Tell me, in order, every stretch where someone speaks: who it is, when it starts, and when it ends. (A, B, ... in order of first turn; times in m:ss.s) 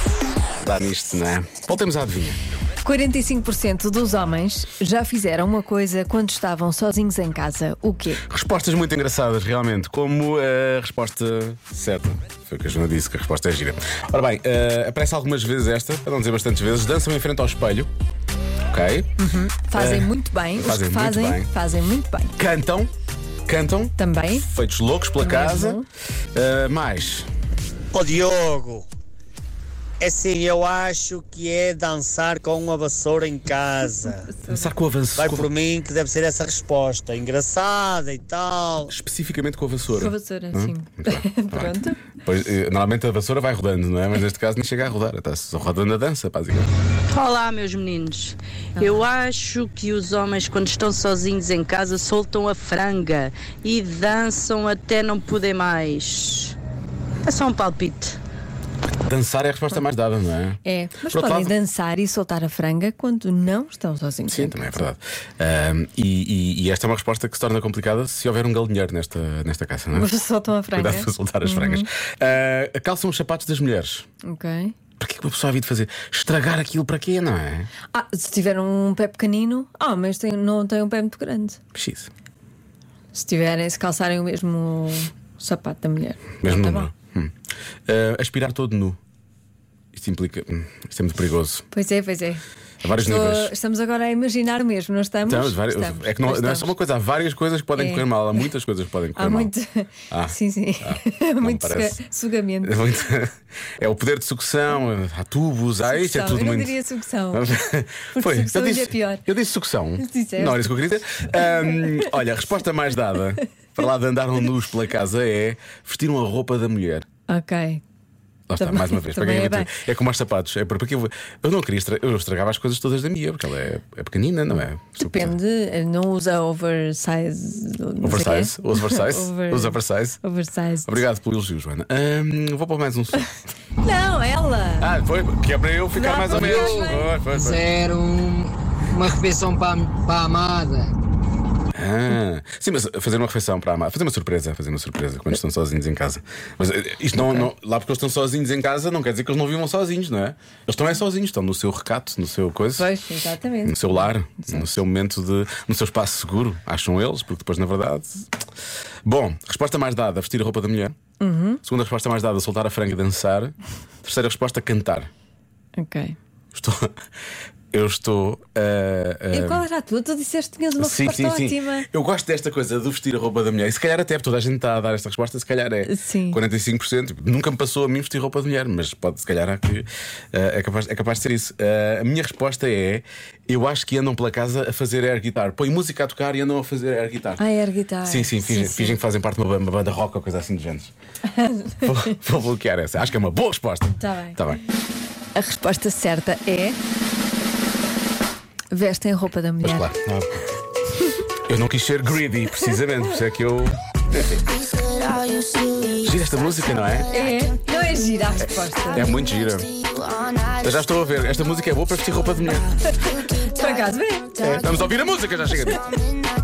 0:00.6-0:02.4 A
0:02.8-0:08.2 B
0:08.3-0:17.9 A
0:18.7-0:19.1 A
0:19.2-0:22.4 B
0:19.7-0:21.5 A
0:22.4-0:22.9 A
0:23.5-0:25.8 A
0:24.0-0:24.5 B
0:25.2-0:25.9 B
0:26.4-0:27.3 A
0:27.9-0:28.9 C
0:30.0-0:34.2 C
0:33.8-0:34.7 B
0:34.5-0:35.5 A
0:35.2-0:38.9 C
0:38.9-0:46.7 A
0:39.9-0:42.0 B
0:47.1-0:56.6 D
0:48.8-0:49.0 B
0:57.2-0:58.2 D
0:58.9-1:01.5 A
1:00.6-1:04.8 B
1:04.3-1:10.2 A
1:09.9-1:11.9 B
1:10.7-1:14.1 A
1:14.2-1:14.8 B
1:15.0-1:17.7 A
1:17.9-1:21.6 B
1:21.7-1:22.1 A
1:23.1-1:26.9 B
1:26.4-1:27.3 A
1:27.9-1:29.0 A
1:29.9-1:31.6 A
1:31.7-1:36.7 B
1:32.8-1:33.5 A
1:35.3-1:39.5 A
1:37.8-1:38.5 B
1:39.2-1:43.0 B
1:40.1-1:42.0 A
1:42.6-1:46.8 A
1:45.8-1:47.6 B
1:47.3-1:57.1 A
1:48.1-1:49.3 B
1:50.0-1:52.2 B
1:57.3-1:57.8 B
1:58.5-2:05.4 A
1:58.6-1:59.7 B
2:05.0-2:11.0 B
2:08.0-2:10.2 A
2:10.8-2:13.3 A
2:13.8-2:14.9 B
2:14.8-2:17.6 A
2:15.9-2:17.2 B
2:16.3-2:20.9 E
2:21.7-2:32.9 A
2:27.2-2:27.5 B
2:32.8-2:34.7 B
2:33.6-2:38.3 A
2:39.1-2:41.0 A
2:41.2-2:41.6 B
2:41.6-2:45.1 A
2:45.8-2:46.2 B
2:46.5-2:46.9 A
2:47.7-2:49.6 A
2:49.3-2:51.9 B
2:50.8-3:07.4 A
2:55.8-2:56.4 B
3:07.4-3:09.0 B
3:08.0-3:10.9 A
3:11.4-3:11.8 B
3:11.8-3:14.6 A
3:13.9-3:14.4 B
3:15.4-3:16.8 B
3:18.7-3:19.9 B
3:19.6-3:20.5 A
3:21.5-3:24.7 A
3:25.7-3:27.1 A
3:27.1-3:29.1 B
3:28.9-3:29.7 A
3:30.4-3:32.8 A
3:33.2-3:34.5 B
3:34.4-3:35.9 A